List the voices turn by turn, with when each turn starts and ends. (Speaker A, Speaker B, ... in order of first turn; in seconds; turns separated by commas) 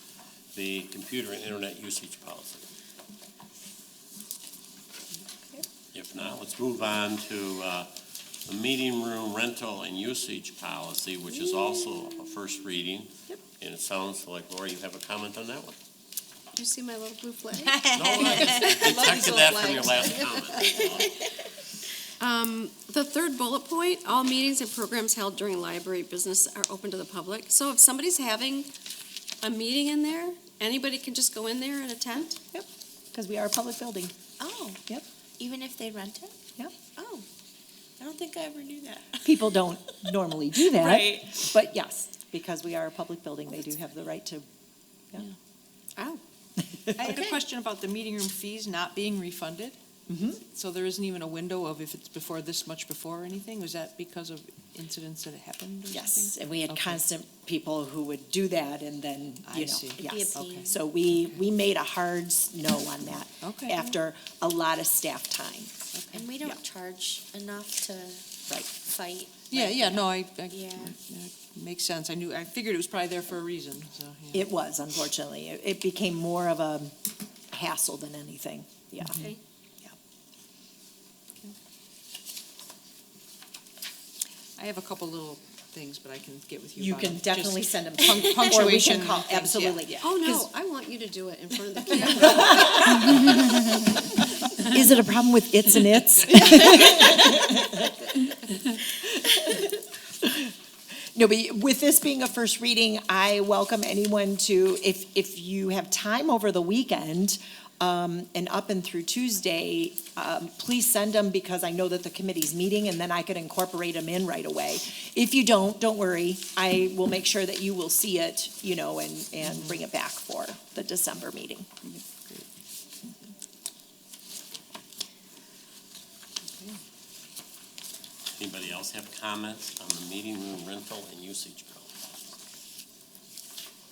Speaker A: 0.5-2.7, Speaker A: 5.9-7.9, Speaker A: 8.5-15.8, Speaker B: 16.5-18.6, Speaker C: 17.7-20.8, Speaker A: 17.9-21.2, Speaker D: 18.8-19.4, Speaker B: 22.2-28.7, Speaker B: 29.4-32.4, Speaker E: 32.5-34.1, Speaker C: 34.4-34.8, Speaker C: 35.4-36.3, Speaker C: 37.0-37.2, Speaker C: 38.0-39.3, Speaker E: 39.2-44.5, Speaker C: 40.8-41.1, Speaker B: 46.0-46.2, Speaker D: 47.0-49.8, Speaker B: 47.0-47.4, Speaker E: 50.1-50.4, Speaker D: 50.5-57.0, Speaker E: 55.9-65.8, Speaker D: 59.4-60.7, Speaker C: 60.0-60.8, Speaker D: 63.4-63.9, Speaker D: 65.9-66.3, Speaker C: 66.1-71.0, Speaker D: 69.5-74.4, Speaker E: 74.3-76.9, Speaker E: 77.5-79.3, Speaker D: 84.6-90.0, Speaker E: 86.8-90.5, Speaker B: 90.0-93.4, Speaker E: 92.0-93.5, Speaker E: 94.6-100.5, Speaker E: 101.1-121.7, Speaker D: 121.8-122.5, Speaker D: 126.4-126.8, Speaker A: 128.4-132.0